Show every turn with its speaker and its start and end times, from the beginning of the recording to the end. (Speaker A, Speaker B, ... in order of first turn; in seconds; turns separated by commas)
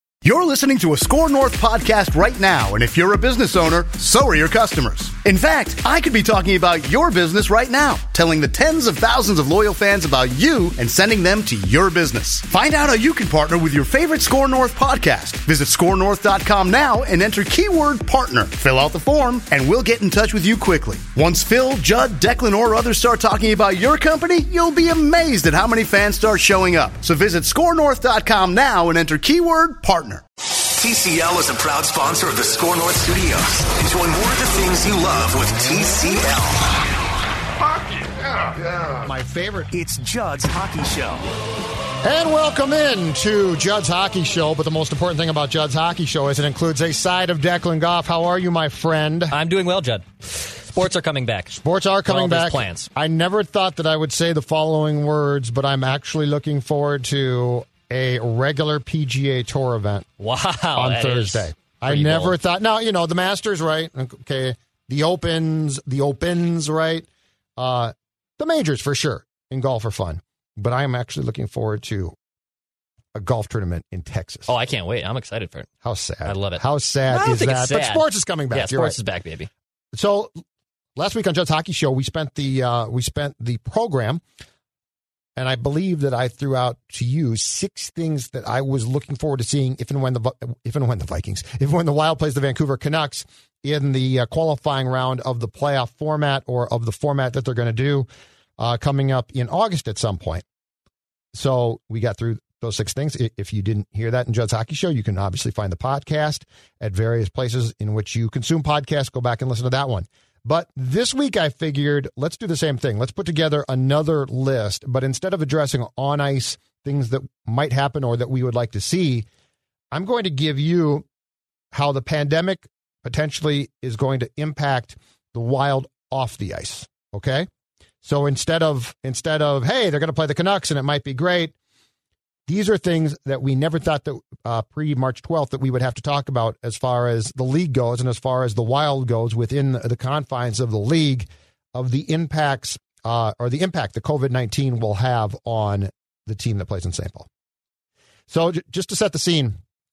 Speaker A: 0.2-30.2, Speaker B: 30.5-36.8, Speaker B: 37.6-39.0, Speaker C: 39.0-39.7, Speaker B: 39.7-41.2, Speaker C: 42.0-49.4, Speaker D: 49.3-51.5, Speaker C: 51.5-60.1, Speaker D: 52.1-52.9, Speaker D: 60.2-62.4, Speaker C: 60.8-72.2, Speaker C: 73.1-74.5, Speaker D: 74.5-75.7, Speaker C: 75.8-79.0, Speaker D: 76.3-79.5, Speaker C: 79.9-80.4, Speaker C: 81.0-84.2, Speaker C: 85.4-98.1, Speaker C: 98.6-100.5, Speaker C: 101.3-119.3, Speaker C: 119.9-121.1, Speaker C: 121.7-127.5, Speaker C: 128.0-131.5, Speaker C: 132.5-147.3, Speaker C: 148.3-149.6